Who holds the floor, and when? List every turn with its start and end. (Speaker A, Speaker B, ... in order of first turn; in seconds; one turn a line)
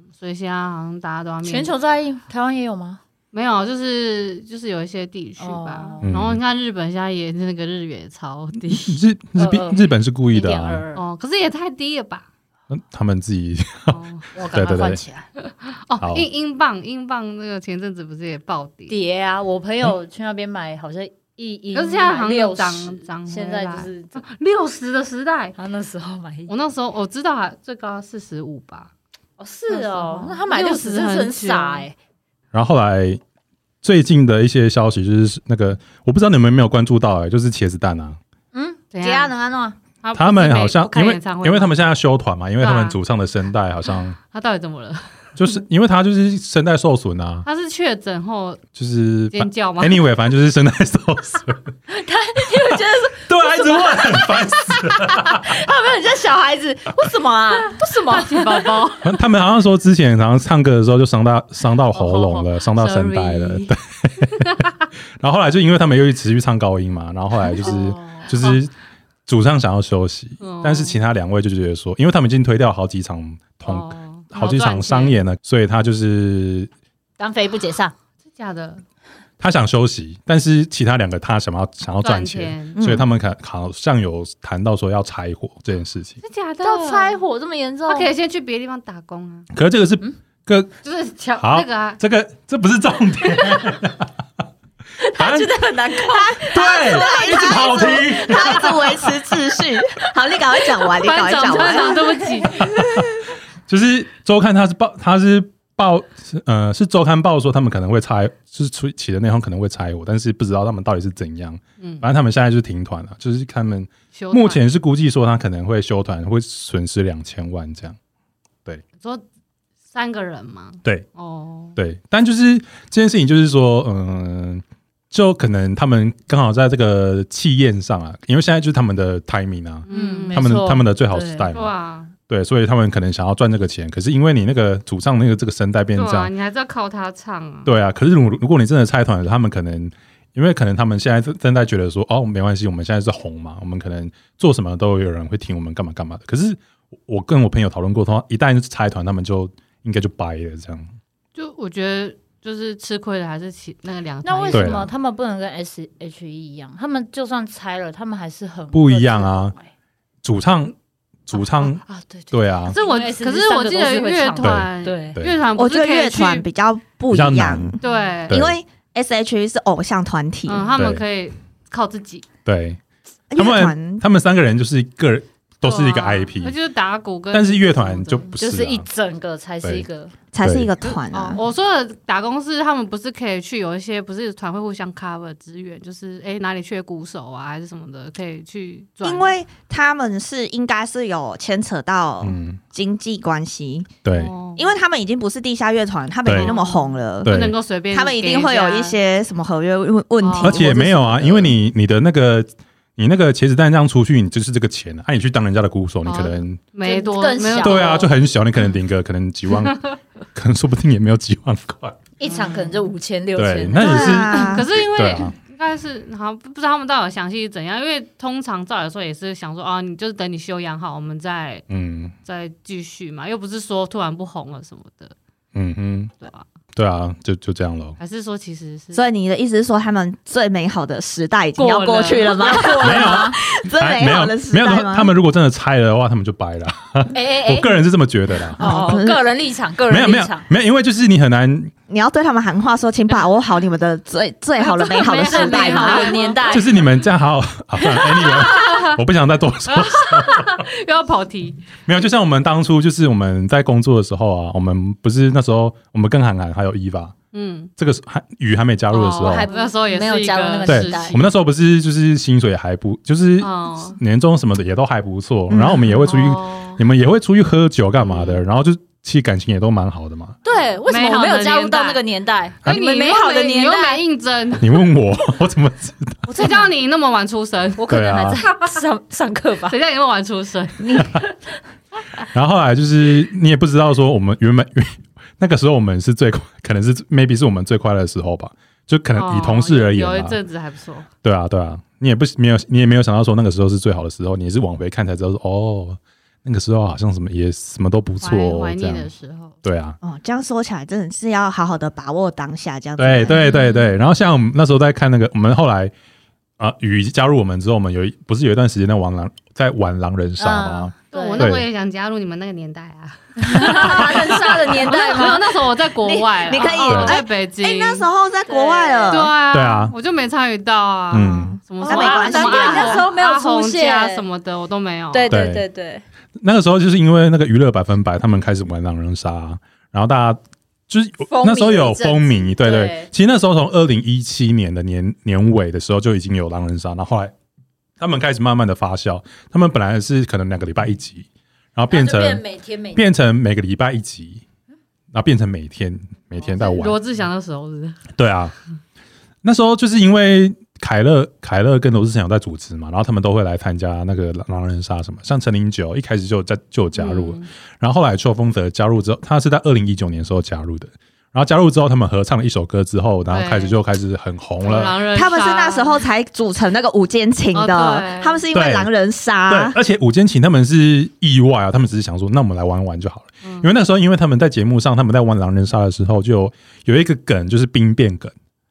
Speaker A: 0.2-1.7
Speaker B: 1.4-3.0
Speaker A: 3.3-9.0
Speaker B: 5.4-6.1
Speaker C: 6.0-6.4
Speaker C: 8.7-10.8
Speaker B: 9.4-11.0
Speaker A: 10.9-12.3
Speaker C: 12.7-14.0
Speaker A: 13.9-14.3
Speaker B: 14.3-15.3
Speaker C: 14.5-15.0
Speaker A: 15.4-18.9
Speaker C: 16.0-16.3
Speaker B: 18.9-24.2
Speaker A: 21.7-25.6
Speaker B: 25.6-26.5
Speaker A: 26.5-28.9
Speaker B: 29.4-31.9
Speaker A: 29.7-31.9
Speaker C: 32.5-33.2
Speaker C: 33.8-38.2
Speaker B: 38.5-39.8
Speaker A: 38.9-39.3
Speaker A: 40.0-41.8
Speaker C: 40.1-44.2
Speaker A: 42.6-43.0
Speaker A: 44.3-45.1
Speaker C: 45.4-47.5
Speaker A: 47.5-48.6
Speaker C: 48.8-51.7
Speaker A: 49.3-50.0
Speaker B: 51.9-58.9
Speaker C: 52.7-55.6
Speaker A: 57.6-59.1
Speaker C: 59.0-68.7
Speaker A: 62.0-63.7
Speaker B: 67.6-68.3
Speaker C: 69.3-76.7
Speaker A: 70.4-71.0
Speaker A: 73.7-75.2
Speaker B: 77.2-78.0
Speaker A: 78.3-78.8
Speaker C: 79.4-86.2
Speaker A: 82.0-82.8
Speaker D: 82.8-83.1
Speaker A: 86.2-87.2
Speaker B: 86.6-88.1
Speaker A: 87.9-89.5
Speaker C: 89.5-90.7
Speaker A: 90.8-92.0
Speaker C: 91.4-94.1
Speaker B: 95.0-99.1
Speaker C: 95.2-95.6
Speaker D: 96.0-102.0
Speaker C: 96.5-99.1
Speaker A: 101.0-102.7
Speaker B: 101.8-102.7
Speaker C: 102.6-118.0
Speaker A: 111.8-112.1
Speaker A: 114.2-114.6
Speaker A: 119.9-121.7
Speaker C: 121.8-131.7
Speaker A: 129.9-130.4
Speaker B: 129.9-131.5
Speaker A: 131.5-132.1
Speaker C: 132.3-136.3
Speaker A: 135.9-137.7
Speaker C: 137.7-150.9
Speaker A: 151.3-154.8
Speaker B: 154.2-159.7
Speaker C: 154.5-154.9
Speaker C: 158.7-159.5
Speaker C: 160.2-160.8
Speaker C: 161.3-162.8
Speaker A: 162.7-166.5
Speaker B: 162.7-165.2
Speaker C: 164.4-165.4
Speaker D: 165.6-170.8
Speaker C: 167.1-167.8
Speaker A: 167.8-168.4
Speaker C: 168.3-168.6
Speaker A: 170.5-172.3
Speaker C: 170.8-171.1
Speaker C: 172.4-172.8
Speaker D: 173.3-174.0
Speaker C: 173.3-176.6
Speaker A: 175.6-178.3
Speaker C: 177.3-178.8
Speaker B: 178.4-180.1
Speaker D: 180.3-181.4
Speaker C: 180.4-180.7
Speaker A: 181.1-189.3
Speaker D: 189.0-193.9
Speaker C: 192.2-192.6
Speaker C: 194.0-194.3
Speaker A: 194.1-194.7
Speaker D: 194.6-197.4
Speaker C: 196.2-196.5
Speaker A: 196.4-199.0
Speaker C: 197.2-197.6
Speaker D: 197.9-201.6
Speaker A: 200.2-200.7
Speaker C: 200.4-206.6
Speaker A: 206.1-208.2
Speaker B: 206.8-208.1
Speaker C: 207.6-212.0
Speaker A: 209.5-209.9
Speaker B: 212.2-214.3
Speaker A: 212.2-212.9
Speaker C: 213.4-215.3
Speaker D: 213.8-214.7
Speaker A: 213.9-221.7
Speaker C: 221.7-222.1
Speaker A: 222.2-225.2
Speaker C: 225.5-226.1
Speaker C: 226.8-228.0
Speaker A: 228.0-229.0
Speaker D: 228.9-235.1
Speaker A: 231.6-232.8
Speaker B: 232.2-233.4
Speaker C: 232.8-238.7
Speaker B: 237.1-237.8
Speaker D: 238.6-239.2
Speaker B: 238.6-240.5
Speaker C: 239.9-241.7
Speaker D: 241.9-246.3
Speaker A: 244.6-246.9
Speaker B: 245.0-246.8
Speaker C: 246.5-250.7
Speaker A: 248.0-249.0
Speaker A: 249.7-251.7
Speaker C: 251.9-257.1
Speaker A: 257.3-257.7
Speaker C: 257.8-259.5
Speaker A: 258.9-261.3
Speaker B: 259.2-261.2
Speaker C: 260.7-270.4
Speaker A: 263.4-264.0
Speaker D: 265.5-265.9
Speaker A: 265.7-266.8
Speaker A: 268.0-268.4
Speaker B: 270.4-274.0
Speaker A: 270.9-272.0
Speaker A: 272.6-274.9
Speaker C: 274.6-276.2
Speaker B: 276.3-276.7
Speaker A: 276.4-277.8
Speaker B: 277.8-279.8
Speaker C: 277.9-278.4
Speaker A: 278.5-278.8
Speaker A: 279.7-281.1
Speaker B: 280.8-281.3
Speaker C: 282.3-290.4
Speaker A: 289.1-291.1
Speaker C: 291.2-299.1
Speaker A: 298.2-299.6
Speaker C: 299.6-300.0
Speaker D: 300.0-303.4
Speaker C: 303.0-305.9
Speaker C: 306.6-311.7
Speaker B: 310.4-311.5
Speaker A: 311.1-318.1
Speaker B: 313.4-315.6
Speaker C: 313.8-314.6
Speaker D: 316.0-319.3
Speaker B: 316.5-316.8
Speaker C: 316.9-317.2
Speaker B: 318.5-319.3
Speaker A: 319.1-325.3
Speaker C: 319.5-319.9
Speaker C: 321.1-321.6
Speaker B: 321.8-324.2
Speaker D: 321.9-323.1
Speaker B: 325.1-326.0
Speaker C: 325.3-325.6
Speaker C: 326.4-337.3
Speaker B: 331.3-333.1
Speaker C: 338.0-342.4
Speaker B: 341.9-343.1
Speaker C: 342.9-344.4
Speaker C: 345.1-347.0
Speaker A: 346.5-348.1
Speaker C: 348.2-348.6
Speaker C: 349.4-365.0
Speaker A: 356.9-357.5
Speaker A: 363.3-363.8
Speaker A: 364.6-366.0
Speaker D: 365.1-369.8
Speaker A: 367.5-368.4
Speaker C: 368.5-368.9
Speaker C: 369.5-378.3
Speaker A: 373.4-373.7